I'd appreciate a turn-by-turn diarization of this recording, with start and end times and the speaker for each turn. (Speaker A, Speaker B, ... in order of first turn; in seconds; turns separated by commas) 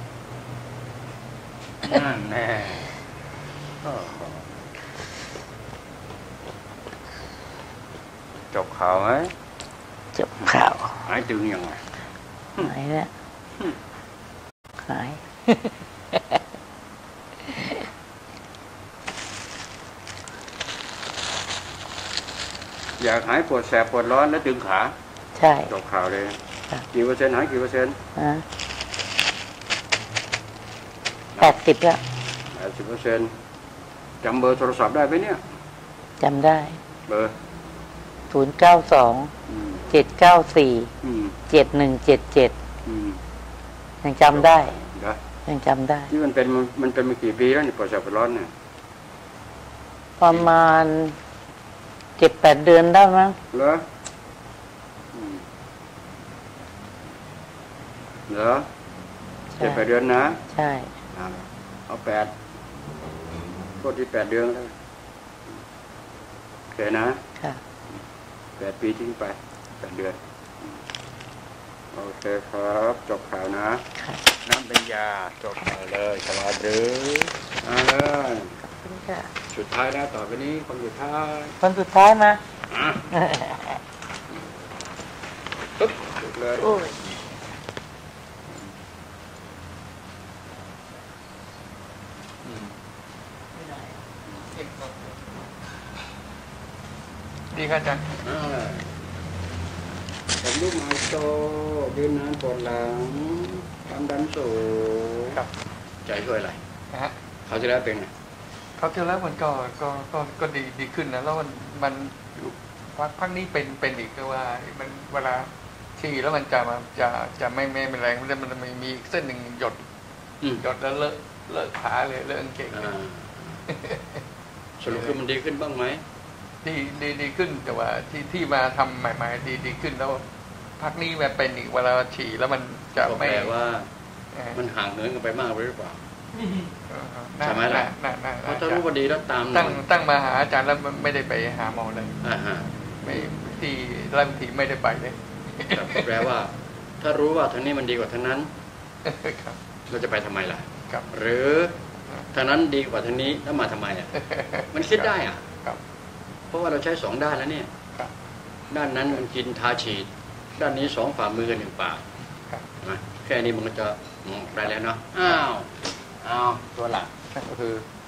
Speaker A: 1.8-2.9, Speaker A: 3.8-4.5, Speaker A: 8.5-9.3, Speaker B: 10.1-11.1, Speaker A: 11.0-11.8, Speaker B: 12.6-13.1, Speaker B: 14.8-16.2, Speaker B: 17.4-17.8, Speaker A: 23.0-24.9, Speaker B: 25.4-25.7, Speaker A: 25.6-26.4, Speaker A: 26.9-28.0, Speaker B: 28.1-28.4, Speaker B: 31.4-32.0, Speaker A: 32.5-33.3, Speaker A: 34.2-35.4, Speaker B: 36.2-36.8, Speaker A: 37.1-37.3, Speaker B: 38.3-39.3, Speaker A: 39.5-39.9, Speaker B: 39.9-40.9, Speaker A: 41.0-41.4, Speaker B: 41.5-42.5, Speaker A: 42.8-43.2, Speaker B: 44.0-44.8, Speaker A: 44.3-45.2, Speaker B: 45.5-46.1, Speaker A: 46.1-48.5, Speaker B: 50.2-51.1, Speaker B: 52.2-53.4, Speaker A: 53.5-53.8, Speaker A: 55.1-55.4, Speaker A: 58.3-58.7, Speaker B: 59.6-59.8, Speaker A: 59.6-60.4, Speaker B: 60.5-60.9, Speaker A: 61.1-62.3, Speaker A: 63.8-64.7, Speaker A: 66.7-67.2, Speaker A: 68.6-70.8, Speaker A: 71.9-73.8, Speaker B: 74.0-74.2, Speaker A: 74.4-78.6, Speaker B: 78.8-79.3, Speaker A: 79.5-81.6, Speaker B: 81.6-82.4, Speaker A: 82.7-83.1, Speaker B: 83.1-83.7, Speaker A: 85.8-86.8, Speaker B: 86.6-87.0, Speaker A: 92.4-92.7, Speaker B: 93.6-93.8, Speaker C: 94.5-95.4, Speaker C: 97.5-98.1, Speaker A: 98.2-98.9, Speaker A: 100.4-105.4, Speaker A: 106.1-106.6, Speaker A: 107.5-108.1, Speaker C: 108.8-119.8, Speaker C: 120.6-122.9, Speaker A: 122.7-123.6, Speaker C: 123.7-124.2, Speaker A: 124.8-126.0, Speaker C: 124.9-125.2, Speaker C: 126.6-130.2, Speaker C: 130.8-133.5, Speaker A: 133.0-133.9, Speaker A: 134.5-136.0, Speaker C: 136.9-138.8, Speaker A: 137.4-137.9, Speaker A: 138.4-139.8, Speaker C: 139.5-142.2, Speaker A: 142.2-142.8, Speaker C: 143.0-146.1, Speaker A: 145.7-148.5, Speaker C: 149.1-149.6, Speaker A: 149.9-151.8, Speaker A: 152.3-154.1, Speaker C: 154.2-155.1, Speaker A: 154.7-155.4, Speaker A: 156.5-157.7, Speaker A: 158.7-162.0, Speaker A: 162.8-167.8